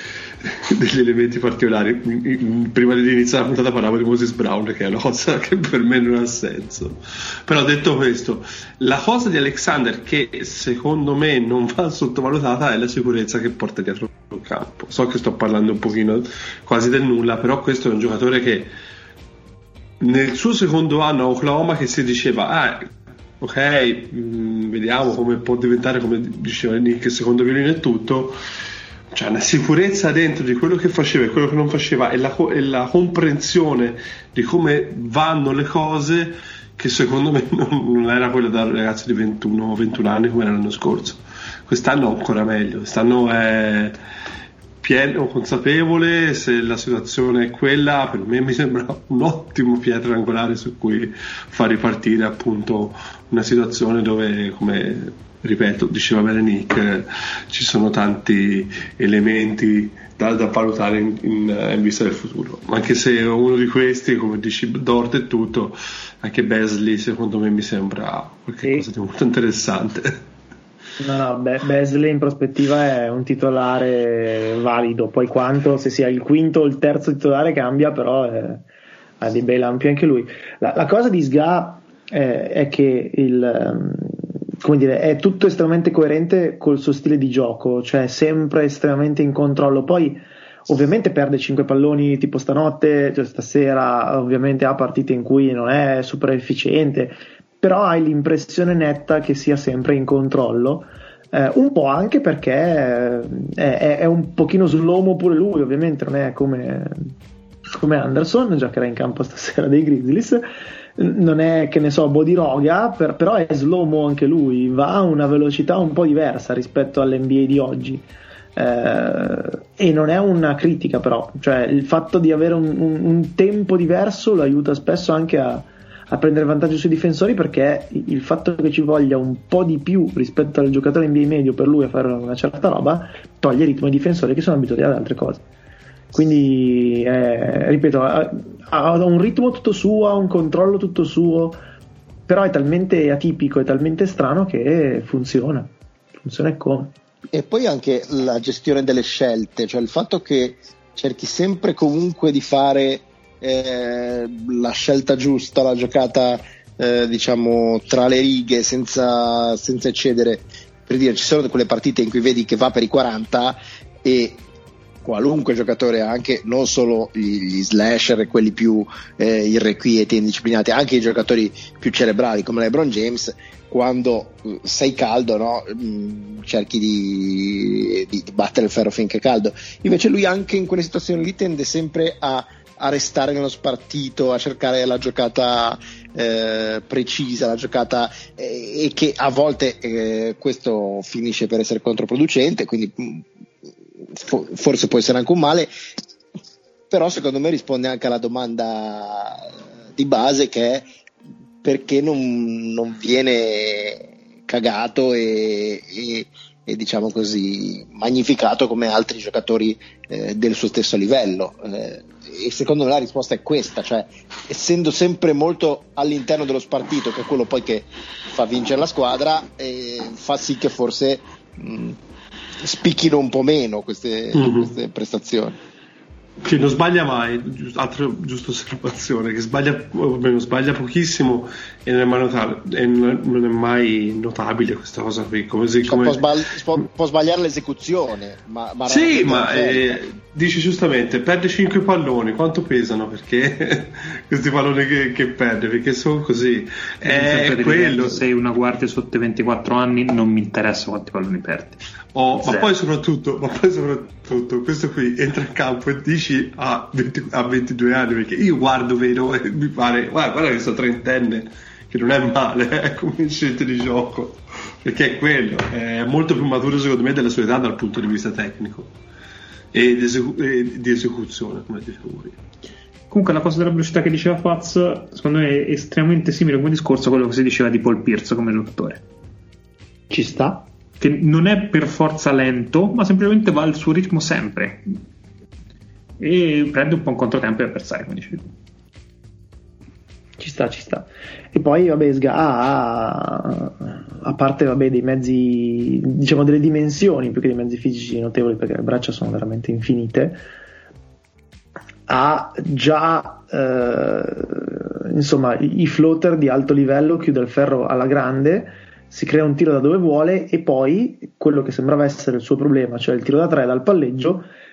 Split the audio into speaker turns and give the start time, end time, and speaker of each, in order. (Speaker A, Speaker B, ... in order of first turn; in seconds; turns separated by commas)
Speaker A: 0.4-18.7, Speaker A: 20.0-28.4, Speaker A: 29.1-44.0, Speaker A: 44.8-70.2, Speaker B: 71.0-78.7, Speaker B: 79.2-107.1, Speaker B: 107.7-135.4, Speaker B: 136.1-141.6, Speaker B: 142.3-146.9, Speaker C: 147.3-164.4, Speaker C: 165.0-193.3, Speaker C: 194.1-195.7, Speaker C: 196.9-200.9, Speaker C: 201.6-222.0, Speaker C: 222.6-225.6, Speaker A: 224.4-224.7, Speaker A: 226.4-236.3, Speaker C: 235.8-240.0, Speaker A: 238.9-248.2, Speaker D: 247.1-251.8, Speaker A: 252.1-268.9, Speaker D: 252.4-252.7, Speaker A: 269.7-272.4, Speaker D: 273.1-279.0, Speaker B: 280.1-280.7, Speaker D: 281.0-284.9, Speaker D: 286.2-288.4, Speaker B: 290.4-300.4, Speaker B: 302.1-314.5